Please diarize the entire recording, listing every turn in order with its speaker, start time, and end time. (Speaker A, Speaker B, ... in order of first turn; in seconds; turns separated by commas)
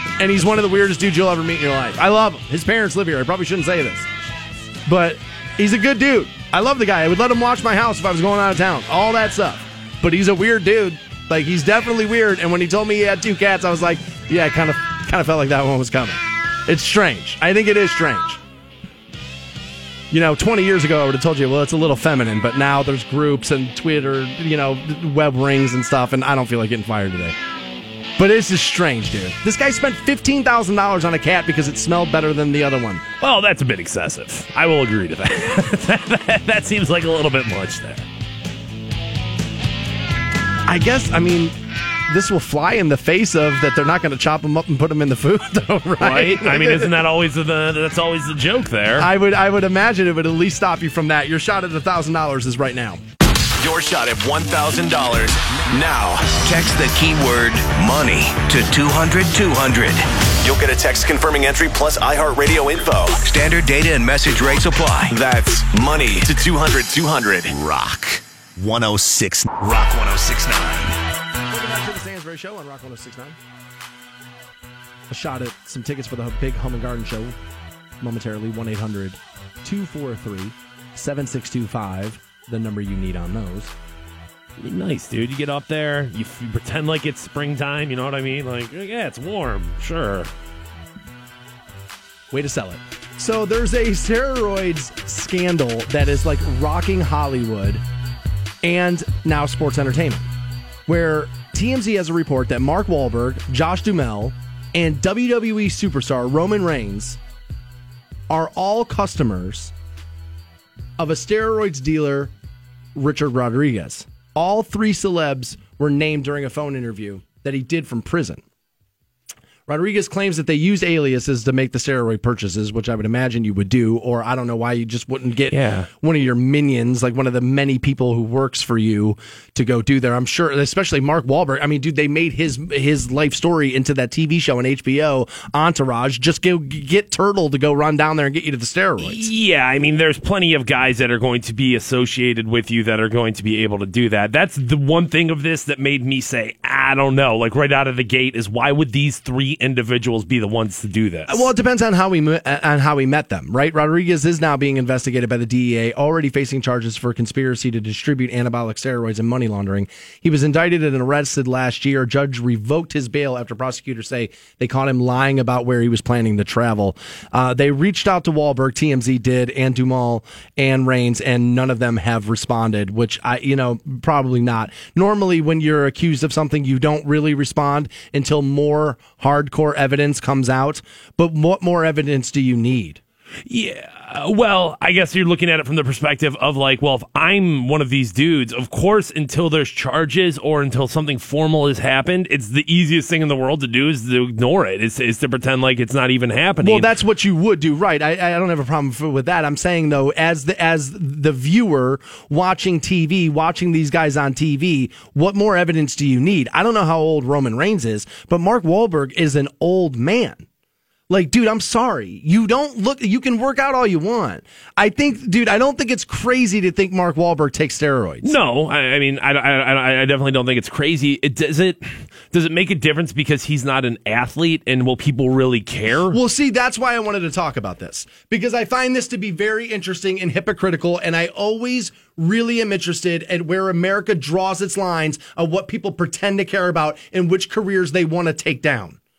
Speaker A: 0.2-4.1, Speaker A: 4.8-18.4, Speaker A: 20.1-27.3, Speaker A: 28.2-33.0, Speaker B: 33.2-38.0, Speaker A: 40.7-41.5, Speaker A: 42.1-47.0, Speaker B: 46.0-49.1, Speaker A: 49.0-53.0, Speaker C: 53.6-71.0, Speaker A: 71.5-73.4, Speaker A: 75.1-77.3, Speaker A: 78.0-83.7, Speaker B: 84.6-90.3, Speaker A: 92.3-97.8, Speaker A: 98.6-100.3, Speaker A: 100.9-107.2, Speaker A: 108.3-109.7, Speaker A: 111.0-112.3, Speaker A: 112.9-118.4, Speaker A: 119.7-139.3, Speaker B: 125.5-125.9, Speaker B: 139.0-151.5, Speaker A: 151.3-183.0, Speaker B: 183.4-196.9, Speaker A: 196.6-210.4, Speaker A: 211.1-218.3, Speaker B: 218.2-226.2, Speaker A: 226.1-239.0